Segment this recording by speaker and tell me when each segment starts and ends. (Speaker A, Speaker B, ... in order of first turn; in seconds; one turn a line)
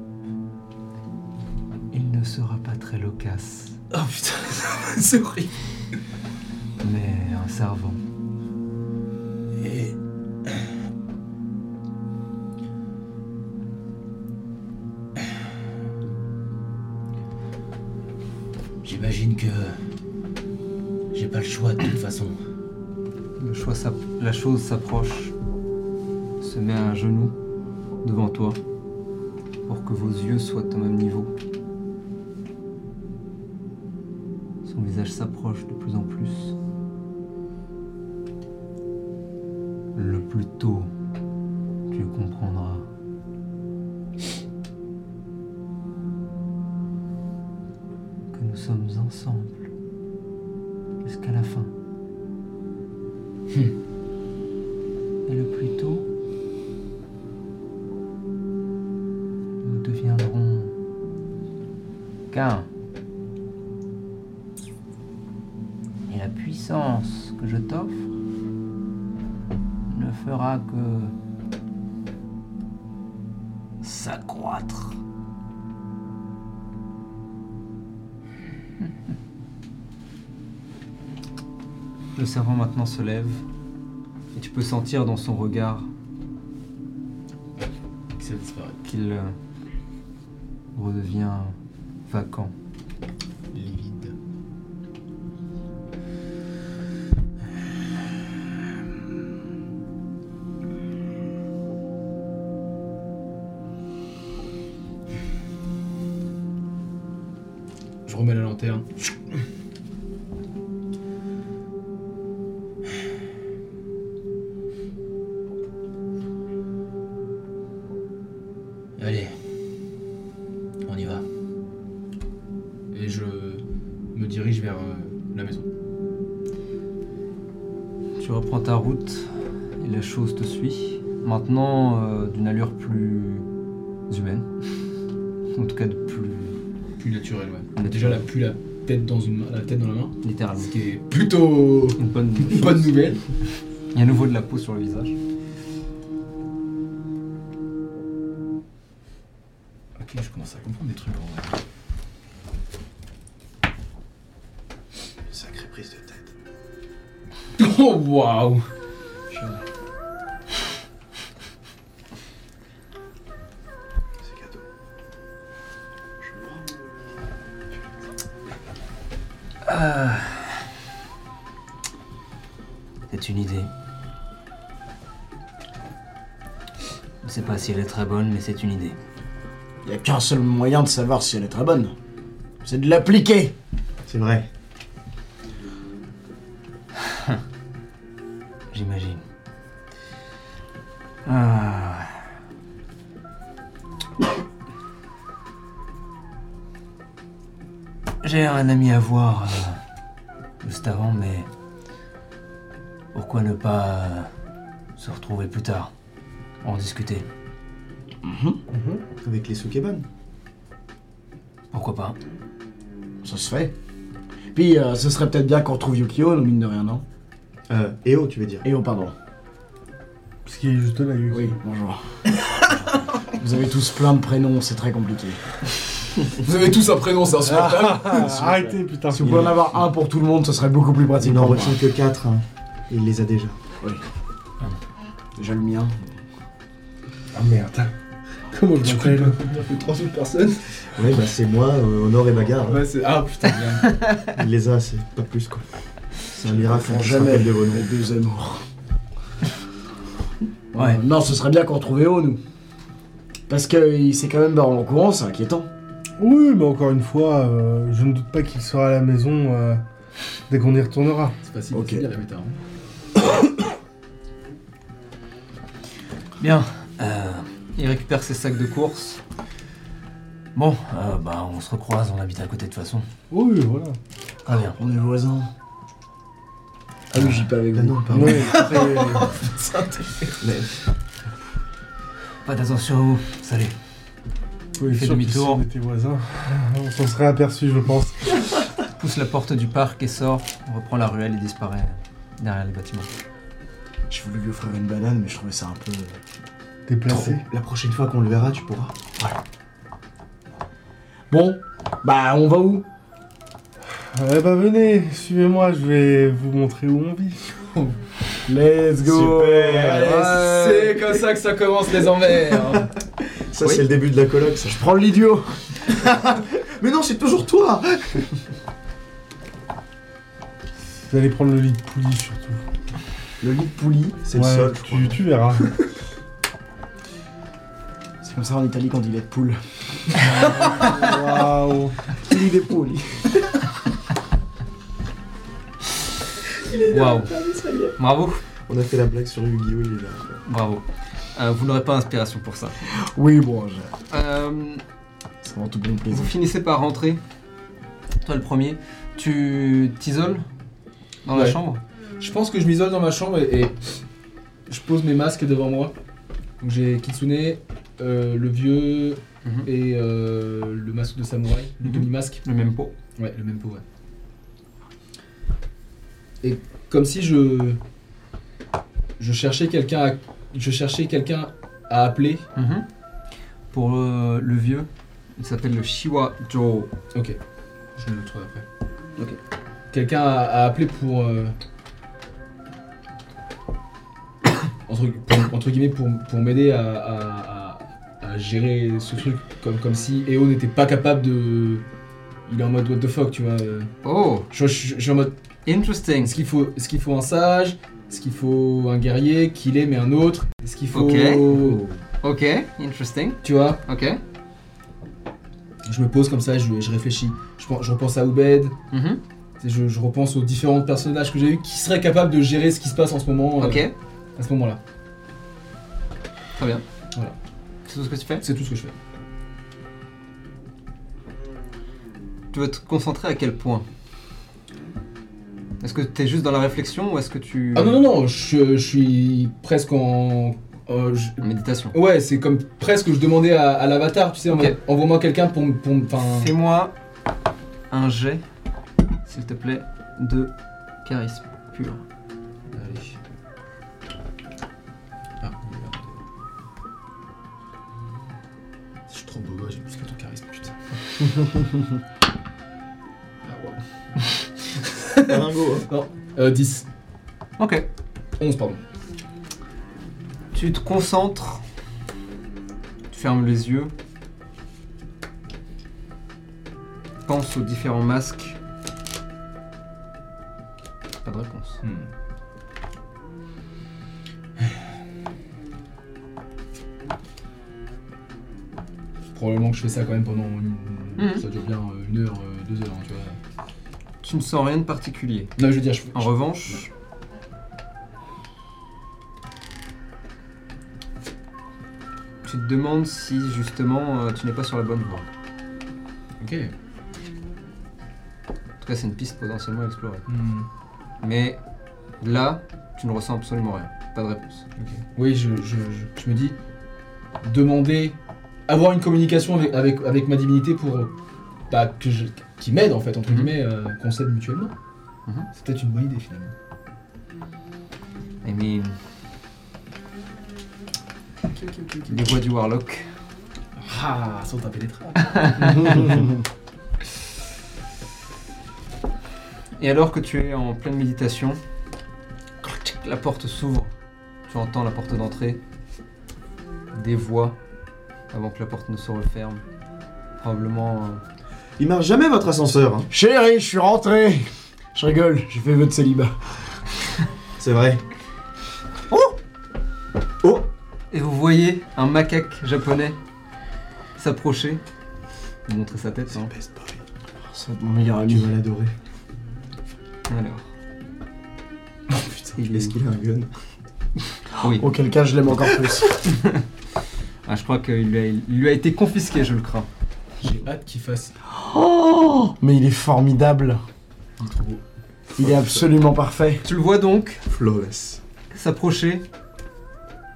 Speaker A: 1.9-3.8
Speaker B: 4.0-5.5
Speaker A: 6.8-8.0
Speaker B: 9.6-10.0
Speaker B: 18.8-19.8
Speaker B: 21.1-22.4
Speaker A: 23.4-25.4
Speaker A: 26.4-27.4
Speaker A: 28.0-28.6
Speaker A: 29.7-31.3
Speaker A: 34.6-36.5
Speaker A: 40.0-40.9
Speaker A: 41.9-42.9
Speaker A: 48.3-49.7
Speaker A: 51.0-51.7
Speaker A: 55.3-56.1
Speaker A: 59.6-60.7
Speaker A: 62.3-62.7
Speaker A: 66.1-68.0
Speaker A: 69.9-71.1
Speaker A: 73.8-75.0
Speaker A: 82.2-83.4
Speaker A: 84.3-85.9
Speaker C: 87.6-88.8
Speaker A: 88.8-89.3
Speaker A: 90.8-91.6
Speaker A: 92.1-92.5
Speaker C: 93.5-94.2
Speaker C: 108.1-108.9
Speaker B: 119.0-119.4
Speaker B: 120.9-121.3
Speaker C: 122.9-123.6
Speaker C: 124.2-125.7
Speaker A: 128.2-133.5
Speaker A: 134.1-134.5
Speaker A: 135.5-136.6
Speaker C: 137.0-143.2
Speaker A: 137.8-138.3
Speaker A: 140.2-140.7
Speaker A: 142.0-143.2
Speaker A: 143.9-145.2
Speaker C: 150.0-151.6
Speaker C: 157.6-158.7
Speaker A: 169.7-170.4
Speaker A: 173.1-173.7
Speaker A: 177.2-179.0
Speaker D: 179.8-181.9
Speaker D: 182.6-183.6
Speaker E: 184.1-184.5
Speaker A: 188.7-189.2
Speaker A: 191.3-192.1
Speaker A: 198.2-199.8
Speaker A: 200.6-201.5
Speaker A: 203.1-204.3
Speaker A: 205.0-205.9
Speaker A: 206.6-207.2
Speaker D: 208.2-208.6
Speaker F: 208.7-209.0
Speaker E: 209.2-210.1
Speaker A: 211.7-212.2
Speaker D: 213.2-213.8
Speaker D: 214.5-217.0
Speaker E: 217.7-218.7
Speaker D: 218.6-219.2
Speaker F: 220.4-221.6
Speaker D: 221.3-222.0
Speaker D: 223.3-225.4
Speaker C: 226.4-228.3
Speaker F: 227.5-229.5
Speaker D: 229.1-231.8
Speaker E: 231.2-233.6
Speaker D: 235.4-236.2
Speaker F: 237.3-237.9
Speaker C: 238.5-240.9
Speaker F: 238.8-239.4
Speaker E: 241.0-242.8
Speaker C: 242.7-244.0
Speaker A: 243.8-244.2
Speaker E: 244.3-245.6
Speaker E: 246.3-247.9
Speaker D: 246.4-248.6
Speaker D: 250.7-252.4
Speaker D: 253.5-255.7
Speaker F: 256.2-259.8
Speaker F: 260.5-261.4
Speaker C: 261.4-262.6
Speaker D: 261.7-262.1
Speaker D: 263.2-263.5
Speaker A: 266.4-269.2
Speaker A: 270.6-273.1
Speaker F: 273.3-274.0
Speaker A: 274.5-274.8
Speaker D: 274.8-275.5
Speaker D: 277.1-278.6
Speaker E: 277.7-278.8
Speaker F: 278.1-279.4
Speaker C: 278.6-280.4
Speaker E: 280.4-280.7
Speaker A: 282.4-283.8
Speaker F: 284.8-288.4
Speaker A: 284.9-285.6
Speaker A: 289.0-293.1
Speaker D: 294.1-296.2
Speaker F: 296.9-297.4
Speaker E: 297.1-299.0
Speaker D: 301.3-302.9
Speaker F: 304.1-307.4
Speaker D: 308.5-311.0
Speaker E: 309.0-310.2
Speaker C: 309.9-312.9
Speaker E: 313.5-314.8
Speaker D: 314.6-315.6
Speaker E: 315.9-318.3
Speaker F: 321.1-322.6
Speaker D: 323.4-324.2
Speaker E: 324.2-325.4
Speaker F: 324.3-325.7
Speaker D: 328.2-329.6
Speaker D: 330.1-331.0
Speaker F: 330.3-332.0
Speaker D: 332.2-333.2
Speaker E: 336.7-337.9
Speaker A: 336.9-337.3
Speaker A: 338.0-338.4
Speaker E: 338.7-340.4
Speaker A: 340.5-340.8
Speaker A: 341.4-342.7
Speaker D: 342.9-343.9
Speaker A: 344.1-344.8
Speaker D: 345.4-346.3
Speaker A: 346.1-347.2
Speaker A: 348.2-350.4
Speaker A: 351.3-351.8
Speaker C: 351.3-351.6
Speaker C: 352.2-353.8
Speaker C: 354.7-355.9
Speaker C: 356.6-362.4
Speaker A: 361.8-362.9
Speaker C: 363.2-363.8
Speaker C: 366.4-367.8
Speaker C: 369.2-372.4
Speaker A: 372.6-372.9
Speaker A: 373.7-376.9
Speaker C: 378.0-378.6
Speaker C: 379.9-381.6
Speaker C: 384.9-391.8
Speaker C: 392.5-393.9
Speaker A: 394.0-394.5
Speaker C: 394.5-395.3
Speaker A: 395.7-396.4
Speaker C: 396.2-401.9
Speaker A: 400.9-404.2
Speaker C: 403.4-403.8
Speaker C: 405.9-408.8
Speaker A: 408.9-409.2
Speaker C: 409.6-414.8
Speaker A: 413.6-413.9
Speaker A: 416.6-416.8
Speaker A: 417.9-418.4
Speaker C: 418.4-418.9
Speaker A: 422.5-423.9
Speaker A: 425.8-428.0
Speaker C: 427.8-436.5
Speaker A: 431.4-431.9
Speaker A: 434.5-434.8
Speaker A: 436.3-436.9
Speaker A: 437.9-438.4
Speaker A: 439.3-440.5
Speaker A: 441.0-442.0
Speaker A: 442.8-443.1
Speaker C: 445.4-446.2
Speaker C: 449.1-450.8
Speaker C: 453.4-456.9
Speaker E: 455.3-455.9
Speaker A: 457.6-457.9
Speaker C: 458.4-458.8
Speaker A: 460.5-461.6
Speaker A: 463.1-463.9
Speaker A: 467.3-468.6
Speaker A: 471.2-471.8
Speaker C: 471.8-472.1
Speaker C: 479.3-483.4
Speaker A: 481.2-481.4
Speaker A: 484.2-485.5
Speaker C: 485.6-486.8
Speaker A: 486.1-486.9
Speaker A: 492.4-495.3
Speaker C: 496.4-496.7
Speaker A: 498.8-500.2
Speaker C: 500.3-500.7
Speaker A: 501.2-501.6
Speaker A: 502.2-504.6
Speaker C: 504.8-506.6
Speaker C: 507.4-508.2
Speaker C: 508.7-511.1
Speaker C: 511.7-514.7
Speaker A: 513.3-513.5
Speaker C: 515.5-516.5
Speaker A: 518.4-519.0
Speaker C: 521.5-522.4
Speaker A: 522.1-523.1
Speaker C: 523.8-526.1
Speaker A: 525.2-526.2
Speaker D: 526.0-526.2
Speaker A: 529.8-531.6
Speaker A: 532.6-533.9
Speaker A: 534.5-535.6
Speaker A: 536.9-537.6
Speaker A: 538.3-539.6
Speaker A: 540.4-541.2
Speaker E: 541.8-543.1
Speaker D: 543.1-546.4
Speaker E: 547.6-548.0
Speaker E: 550.4-550.7
Speaker A: 551.1-553.2
Speaker A: 554.2-554.8
Speaker A: 555.7-556.5
Speaker E: 556.3-557.0
Speaker D: 557.5-558.5
Speaker E: 558.3-558.9
Speaker A: 560.3-560.6
Speaker C: 562.1-562.5
Speaker E: 562.5-563.5
Speaker A: 564.6-564.9
Speaker D: 564.6-566.1
Speaker A: 566.2-566.6
Speaker A: 567.5-569.9
Speaker C: 570.4-571.4
Speaker D: 571.5-573.8
Speaker C: 574.4-574.8
Speaker D: 575.4-576.6
Speaker E: 575.4-575.8
Speaker A: 576.6-577.4
Speaker E: 577.5-578.2
Speaker A: 578.5-579.2